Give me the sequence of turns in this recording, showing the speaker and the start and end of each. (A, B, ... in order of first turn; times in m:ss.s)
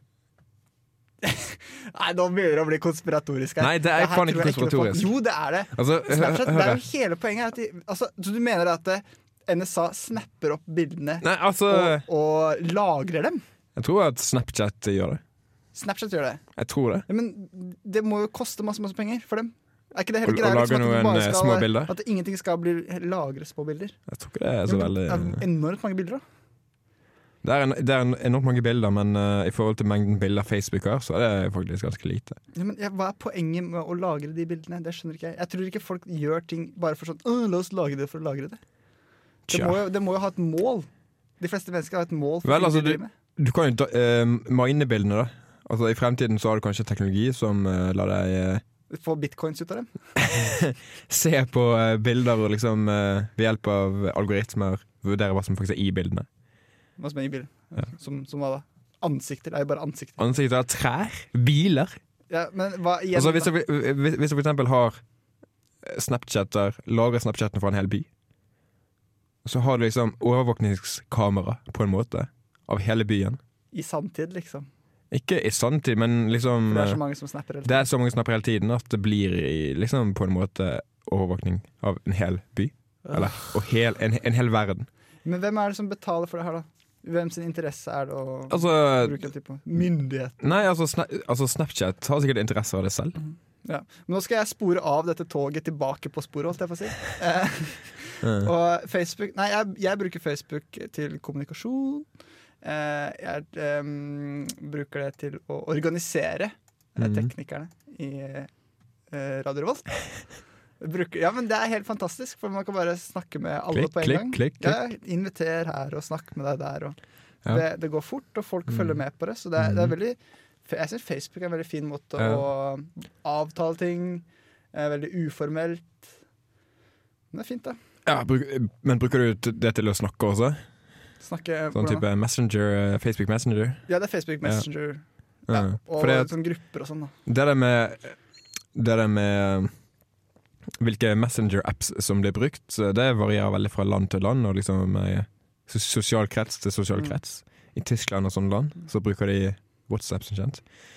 0:01.2-0:13.4 A
0:03.6-0:05.2 B
0:05.7-0:06.8 B
0:11.2-0:12.0 B
0:13.8-0:15.2 B
0:15.7-0:16.4 A
0:16.6-0:17.0 B
0:17.1-0:24.0 A
0:20.2-0:21.9 B
0:24.1-0:25.4 B
0:24.7-0:26.2 A
0:27.4-0:32.4 B
0:32.5-0:38.6 A
0:39.5-0:39.8 B
0:39.5-0:40.9 A
0:41.4-0:43.1 A
0:42.4-0:48.6 B
0:48.9-0:49.9 A
0:50.2-0:56.3 B
0:57.0-1:00.2 A
1:00.2-1:02.0 B
1:02.3-1:03.5 A
1:03.2-1:05.0 B
1:05.8-1:08.1 B
1:09.4-1:13.4 B
1:13.7-1:14.7 A
1:15.1-1:17.0 B
1:16.7-1:17.9 A
1:17.6-1:24.9 B
1:25.2-1:30.4 A
1:28.5-1:29.2 B
1:30.4-1:33.2 B
1:33.3-1:42.1 A
1:38.2-1:38.5 B
1:42.6-1:48.5 A
1:47.0-1:47.3 B
1:49.1-1:50.0 A
1:50.8-1:57.0 A
1:53.7-1:54.8 B
1:57.5-2:06.1 A
1:59.6-2:00.0 B
2:02.2-2:02.5 B
2:07.3-2:07.8 A
2:08.0-2:10.6 B
2:11.2-2:12.0 A
2:11.7-2:13.9 B
2:13.9-2:17.1 A
2:15.5-2:16.3 B
2:17.3-2:18.2 B
2:18.7-2:19.7 B
2:20.8-2:30.6 B